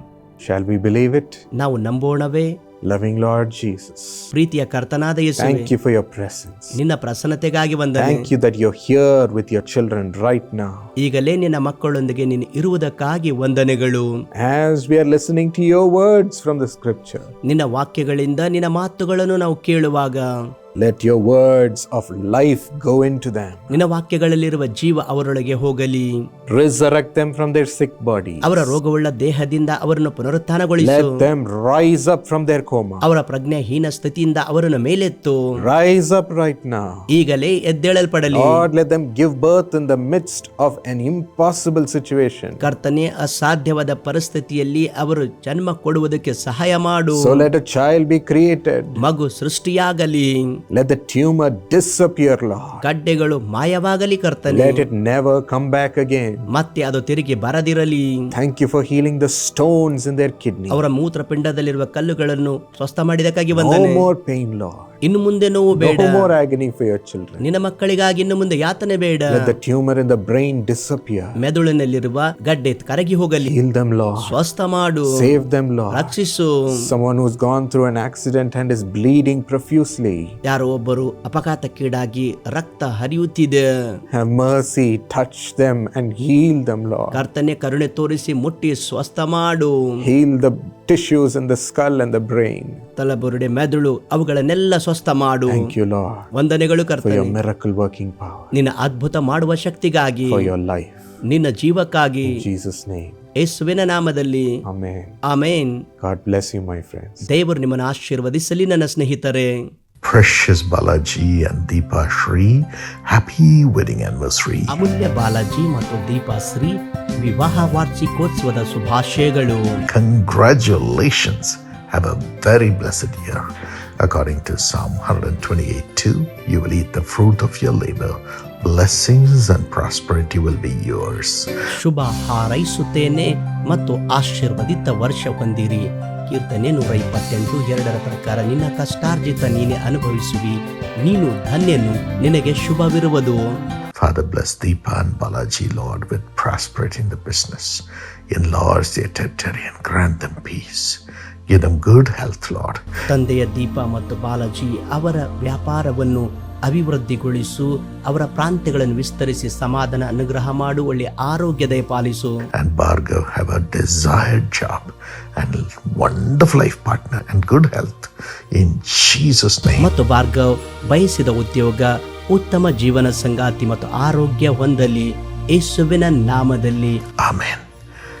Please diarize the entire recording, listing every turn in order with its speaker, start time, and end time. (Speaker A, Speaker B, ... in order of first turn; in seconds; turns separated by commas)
Speaker A: 0.4-1.4, Speaker B: 1.6-2.6, Speaker A: 2.8-4.3, Speaker B: 4.3-5.7, Speaker A: 5.4-6.8, Speaker B: 6.7-8.3, Speaker A: 8.0-10.9, Speaker B: 11.0-14.1, Speaker A: 14.3-17.3, Speaker B: 17.4-20.3, Speaker A: 20.7-23.8, Speaker B: 23.7-26.1, Speaker A: 26.5-28.8, Speaker B: 28.4-31.2, Speaker A: 30.8-33.0, Speaker B: 33.0-35.4, Speaker A: 35.6-37.1, Speaker B: 37.1-38.6, Speaker A: 38.3-42.7, Speaker B: 42.6-47.5, Speaker A: 47.1-49.0, Speaker B: 49.0-50.4, Speaker A: 50.7-52.8, Speaker B: 52.8-54.9, Speaker A: 54.5-56.5, Speaker B: 56.5-58.2, Speaker A: 58.3-60.8, Speaker B: 60.7-64.1, Speaker A: 63.5-64.9, Speaker B: 65.0-66.3, Speaker A: 65.7-67.4, Speaker B: 67.4-69.5, Speaker A: 69.3-71.4, Speaker B: 71.4-73.5, Speaker A: 73.4-74.4, Speaker B: 74.2-75.3, Speaker A: 75.1-76.1, Speaker B: 75.9-76.5, Speaker A: 76.7-80.3, Speaker B: 80.5-83.7, Speaker A: 84.1-87.2, Speaker B: 87.1-89.7, Speaker A: 90.0-92.8, Speaker B: 93.0-95.7, Speaker A: 95.5-96.3, Speaker B: 96.3-97.3, Speaker A: 97.0-98.5, Speaker B: 98.5-100.5, Speaker A: 100.2-101.2, Speaker B: 101.3-102.4, Speaker A: 102.2-103.2, Speaker B: 103.4-104.5, Speaker A: 104.6-105.2, Speaker B: 105.3-105.8, Speaker A: 106.0-107.3, Speaker B: 107.2-109.6, Speaker C: 110.0-114.8, Speaker B: 114.7-119.8, Speaker C: 119.9-123.5, Speaker C: 124.0-131.5, Speaker B: 131.7-143.4, Speaker C: 143.9-152.8, Speaker B: 153.1-162.4, Speaker C: 162.5-169.9, Speaker B: 169.8-177.0, Speaker C: 177.2-177.6